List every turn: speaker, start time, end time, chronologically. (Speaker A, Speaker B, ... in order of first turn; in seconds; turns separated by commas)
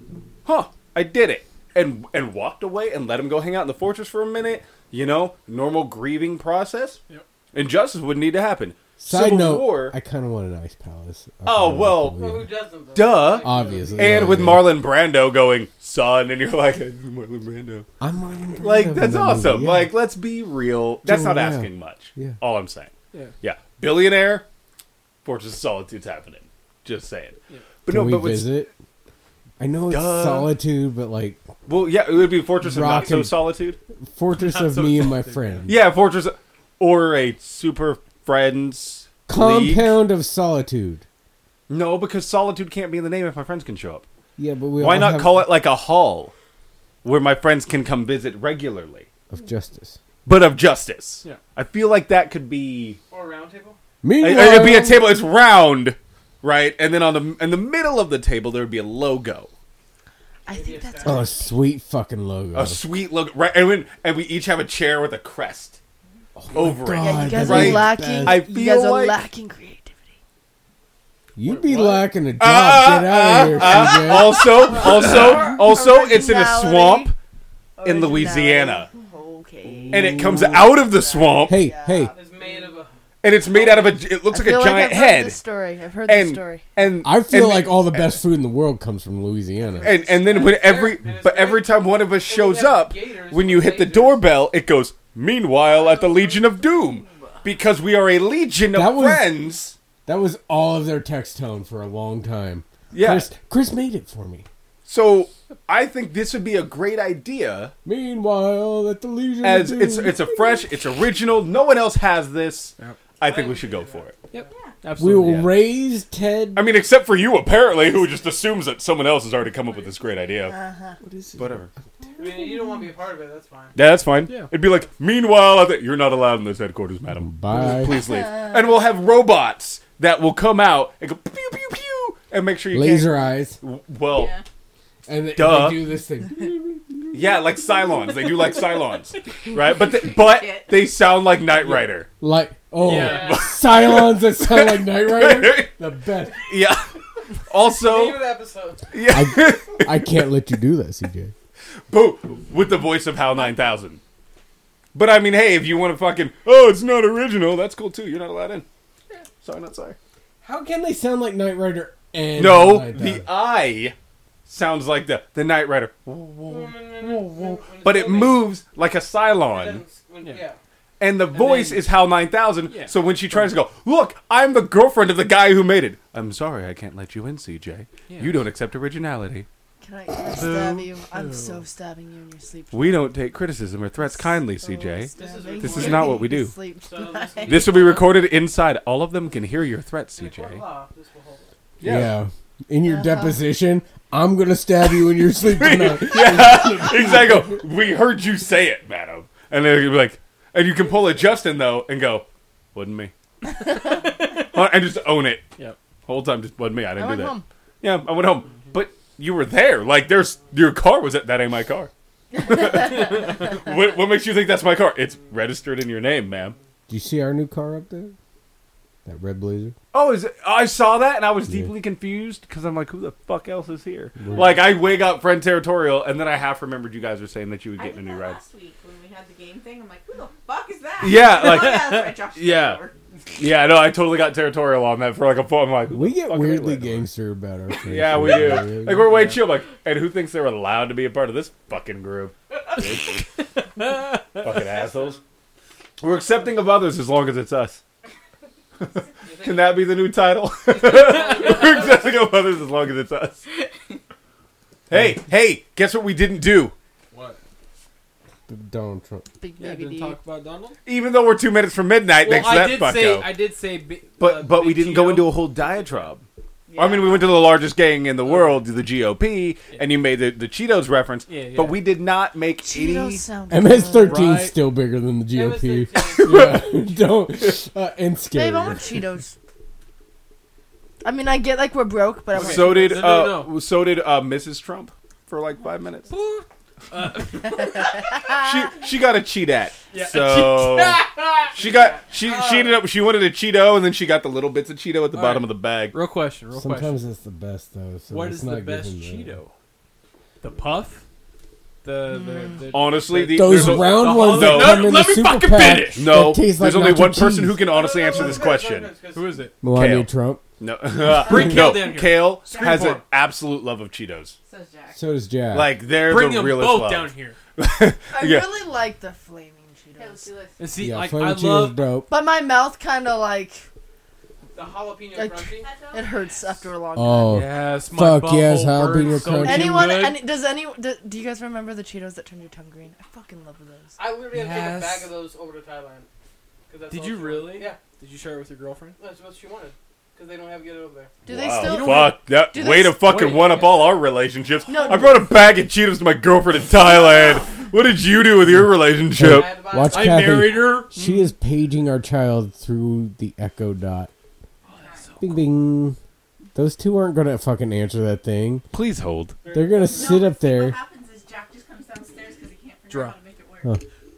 Speaker A: 0.4-7.0, Speaker A: 7.5-9.9, Speaker B: 9.0-12.5, Speaker A: 11.4-12.2, Speaker C: 12.1-14.3, Speaker A: 12.9-17.9, Speaker B: 13.4-14.7, Speaker B: 18.0-19.9, Speaker A: 18.6-24.4, Speaker B: 21.0-22.4, Speaker A: 25.2-28.6, Speaker B: 27.9-28.7, Speaker B: 29.6-31.4, Speaker A: 29.9-30.5, Speaker A: 31.6-33.8, Speaker B: 32.6-33.4, Speaker B: 34.0-35.8, Speaker D: 34.3-35.6, Speaker A: 35.7-40.0, Speaker B: 39.3-41.0, Speaker A: 41.7-44.0, Speaker B: 44.4-45.5, Speaker A: 44.8-46.3, Speaker A: 47.0-49.1, Speaker B: 49.3-50.0, Speaker A: 50.2-53.0, Speaker C: 53.1-53.8, Speaker B: 54.0-55.1, Speaker A: 54.2-59.5, Speaker E: 60.5-61.5, Speaker C: 60.5-61.3, Speaker B: 61.0-62.8, Speaker A: 62.5-65.8, Speaker B: 66.4-68.4, Speaker A: 66.5-69.2, Speaker E: 66.9-70.0, Speaker B: 71.3-74.5, Speaker D: 71.5-72.0, Speaker A: 72.4-77.2, Speaker E: 74.7-77.1, Speaker E: 77.8-82.2, Speaker A: 77.8-78.9, Speaker B: 79.7-80.8, Speaker A: 79.9-81.7, Speaker B: 81.4-82.1, Speaker C: 82.0-82.9, Speaker A: 83.2-85.4, Speaker C: 83.5-84.0, Speaker E: 84.3-86.7, Speaker A: 86.1-88.2, Speaker B: 87.0-90.0, Speaker A: 89.8-99.8, Speaker C: 89.8-94.2, Speaker F: 95.7-97.3, Speaker B: 98.7-99.3, Speaker B: 100.0-104.5, Speaker A: 102.9-103.3, Speaker A: 104.8-107.7, Speaker B: 107.8-110.8, Speaker A: 109.4-114.2, Speaker C: 113.2-114.5, Speaker D: 114.3-115.5, Speaker F: 114.4-114.8, Speaker B: 115.0-116.7, Speaker A: 115.2-115.5, Speaker A: 116.5-120.6, Speaker E: 120.5-121.0, Speaker B: 121.0-121.6, Speaker A: 121.4-121.7, Speaker C: 122.2-123.7, Speaker A: 123.7-134.4, Speaker D: 124.2-124.5, Speaker B: 127.2-128.0, Speaker B: 132.7-133.6, Speaker F: 134.0-134.4, Speaker B: 135.1-136.8, Speaker A: 135.3-135.8, Speaker A: 137.1-142.1, Speaker F: 139.7-140.9, Speaker D: 141.5-141.9, Speaker B: 142.2-146.6, Speaker D: 142.8-143.4, Speaker C: 142.9-143.5, Speaker A: 142.9-145.7, Speaker A: 146.4-146.9, Speaker A: 147.4-148.2, Speaker C: 147.7-148.9, Speaker A: 148.9-150.2, Speaker B: 149.1-151.3, Speaker A: 151.9-154.0, Speaker A: 154.9-158.7, Speaker A: 159.4-160.0, Speaker B: 160.4-163.2, Speaker A: 162.3-163.9, Speaker A: 164.4-169.8, Speaker C: 166.5-168.5, Speaker C: 169.5-170.6, Speaker A: 171.0-179.5, Speaker D: 171.3-171.8, Speaker D: 172.6-173.6, Speaker D: 178.1-178.4, Speaker E: 179.8-183.1, Speaker D: 180.3-181.6, Speaker A: 182.7-186.6, Speaker E: 184.0-187.9, Speaker C: 185.2-186.2, Speaker C: 186.8-188.0, Speaker A: 187.4-190.6, Speaker C: 190.2-191.5, Speaker A: 191.8-192.2, Speaker B: 191.8-197.6, Speaker E: 192.8-193.4, Speaker A: 195.3-205.5, Speaker A: 206.1-216.6, Speaker E: 206.9-207.4, Speaker B: 216.9-218.1, Speaker B: 219.0-219.7, Speaker A: 219.9-228.4, Speaker B: 221.4-221.7, Speaker B: 224.2-224.7, Speaker F: 227.7-232.9, Speaker A: 231.0-232.8, Speaker A: 233.3-237.1, Speaker B: 235.9-239.1, Speaker A: 237.8-243.2, Speaker D: 238.1-239.4, Speaker D: 243.8-244.4, Speaker A: 244.4-245.2, Speaker A: 246.0-247.8, Speaker A: 248.8-253.4, Speaker C: 249.2-249.8, Speaker C: 250.7-252.2, Speaker A: 254.9-256.7, Speaker B: 254.9-255.2, Speaker D: 257.1-257.4, Speaker B: 258.5-259.3, Speaker E: 259.4-260.2, Speaker D: 259.6-260.8, Speaker A: 260.8-263.4, Speaker D: 262.2-265.9, Speaker A: 264.2-266.2, Speaker F: 266.7-267.4, Speaker A: 266.8-273.2, Speaker D: 268.2-268.6, Speaker D: 271.3-271.8, Speaker E: 272.6-274.4, Speaker B: 273.5-279.0, Speaker D: 274.0-274.6, Speaker C: 275.3-276.8, Speaker E: 278.3-279.3, Speaker E: 281.0-283.0, Speaker D: 282.3-283.5, Speaker A: 282.3-286.1, Speaker D: 286.1-288.4, Speaker A: 288.3-296.0, Speaker D: 289.9-291.6, Speaker C: 291.6-292.8, Speaker D: 295.1-297.0, Speaker B: 296.5-299.4, Speaker D: 298.1-299.5, Speaker D: 300.4-301.0, Speaker D: 301.8-306.1, Speaker E: 302.1-302.7, Speaker A: 302.7-305.0, Speaker B: 303.3-307.6, Speaker A: 305.9-308.9, Speaker C: 307.7-309.4, Speaker D: 309.1-309.6, Speaker B: 309.6-310.4, Speaker A: 309.7-314.4, Speaker D: 311.1-313.0, Speaker B: 311.3-311.8, Speaker F: 312.4-313.0, Speaker F: 314.4-315.0, Speaker B: 314.9-315.7, Speaker A: 315.5-318.5, Speaker D: 315.9-317.4, Speaker E: 318.1-320.3, Speaker F: 319.9-320.8, Speaker D: 320.6-321.8, Speaker B: 320.8-322.1, Speaker E: 322.1-323.6, Speaker C: 324.5-325.7, Speaker E: 325.1-327.5, Speaker F: 325.5-326.6, Speaker B: 326.9-329.9, Speaker D: 327.3-330.2, Speaker E: 329.4-334.0, Speaker C: 334.0-336.1, Speaker D: 334.3-335.1, Speaker C: 336.7-337.8, Speaker D: 336.9-339.0, Speaker C: 339.0-341.1, Speaker E: 341.2-343.0, Speaker A: 341.3-349.6, Speaker D: 341.6-342.1, Speaker D: 343.0-344.0, Speaker E: 344.7-345.2, Speaker B: 348.6-354.1, Speaker C: 349.2-350.4, Speaker D: 349.8-351.3, Speaker D: 354.7-355.2, Speaker F: 354.7-355.1, Speaker B: 355.2-356.0, Speaker B: 356.5-358.6, Speaker A: 358.7-359.4, Speaker C: 359.4-360.1, Speaker B: 359.5-360.8, Speaker F: 359.9-363.8, Speaker D: 362.9-363.2